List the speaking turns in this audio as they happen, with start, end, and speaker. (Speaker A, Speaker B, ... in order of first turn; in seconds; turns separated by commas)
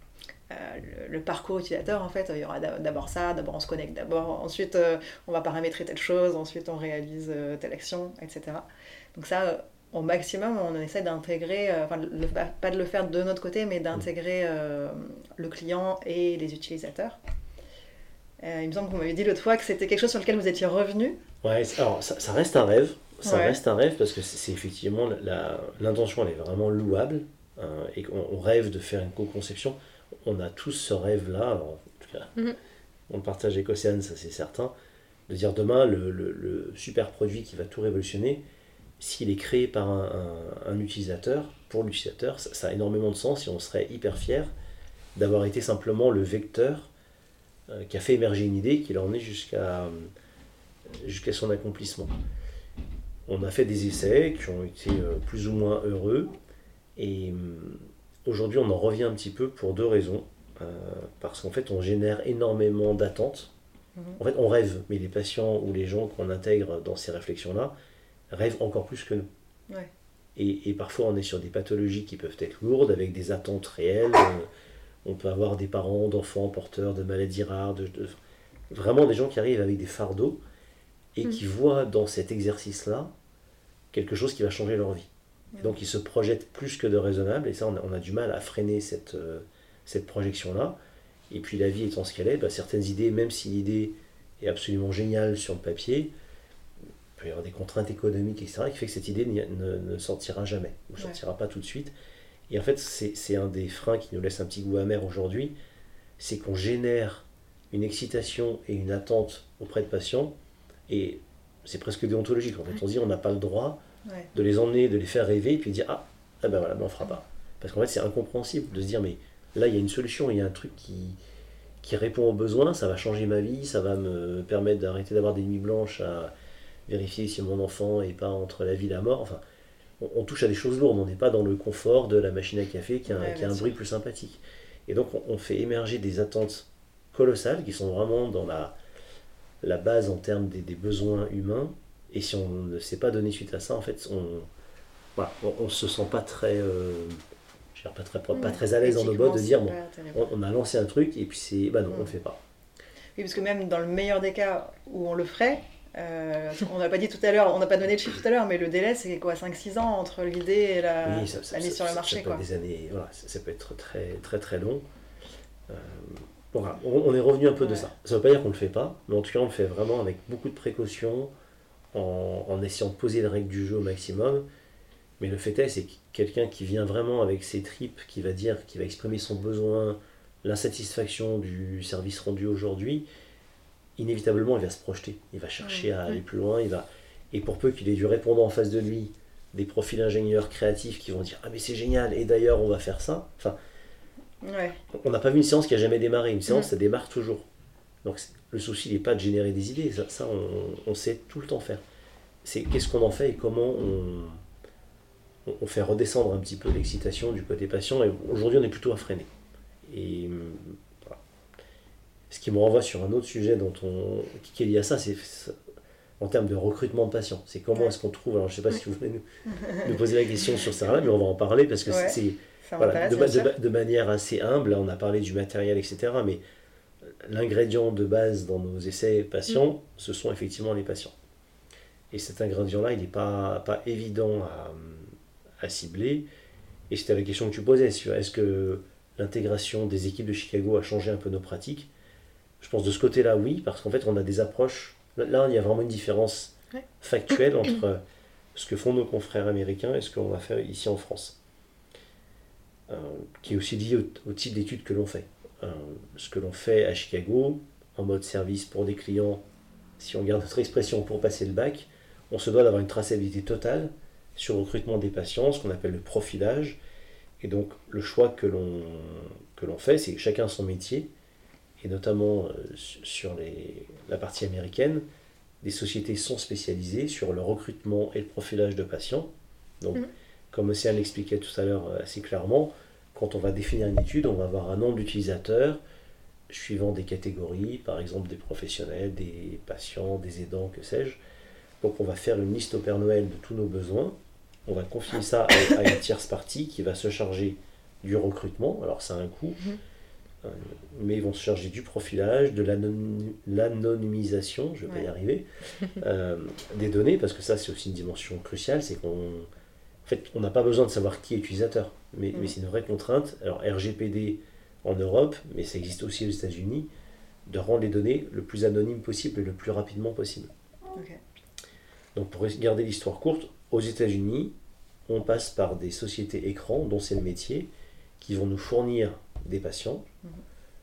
Speaker A: 0.5-17.2, Speaker A: 18.4-21.2, Speaker B: 21.4-32.3, Speaker A: 23.2-23.6, Speaker B: 33.1-34.7, Speaker B: 35.3-38.4, Speaker B: 39.0-44.5, Speaker B: 45.1-46.9, Speaker B: 47.7-50.1, Speaker B: 50.9-52.2, Speaker B: 53.3-56.3, Speaker B: 57.0-63.5, Speaker B: 64.2-67.7, Speaker B: 68.3-69.3, Speaker B: 70.3-74.5, Speaker B: 75.0-78.2, Speaker B: 78.7-80.4, Speaker B: 81.1-83.1, Speaker B: 83.9-85.1, Speaker A: 85.5-85.8, Speaker B: 85.6-90.8, Speaker B: 91.3-96.1, Speaker B: 97.2-101.9, Speaker B: 102.5-105.5, Speaker B: 106.2-110.3, Speaker B: 110.9-113.8, Speaker B: 114.3-121.2, Speaker B: 121.8-126.3, Speaker B: 126.9-129.4, Speaker B: 130.0-138.8, Speaker A: 133.1-133.7, Speaker B: 139.6-144.5, Speaker B: 145.2-147.2, Speaker B: 147.7-152.4, Speaker A: 148.3-150.2, Speaker A: 153.2-162.4, Speaker B: 161.0-164.8, Speaker B: 165.7-171.3, Speaker A: 167.6-167.9, Speaker B: 171.9-174.5, Speaker B: 175.2-183.1, Speaker B: 184.0-193.6, Speaker A: 185.6-185.9, Speaker A: 194.4-194.8, Speaker B: 194.9-197.5, Speaker B: 198.0-201.8, Speaker B: 202.4-204.4, Speaker B: 205.4-209.3, Speaker B: 209.8-211.2, Speaker B: 212.3-215.6, Speaker B: 216.2-219.2, Speaker A: 219.4-220.0, Speaker B: 219.8-226.4, Speaker A: 221.9-223.5, Speaker B: 227.0-231.1, Speaker B: 232.1-236.3, Speaker B: 236.9-241.9, Speaker B: 242.6-248.0, Speaker B: 248.5-251.4, Speaker B: 252.9-259.4, Speaker B: 260.0-266.8, Speaker B: 267.4-271.1, Speaker B: 271.8-275.0, Speaker B: 275.6-285.8, Speaker B: 286.5-291.2, Speaker B: 291.8-299.6, Speaker B: 300.4-309.5, Speaker B: 310.0-316.9, Speaker B: 317.4-320.5, Speaker A: 320.9-321.2, Speaker B: 322.1-324.5, Speaker B: 325.1-330.1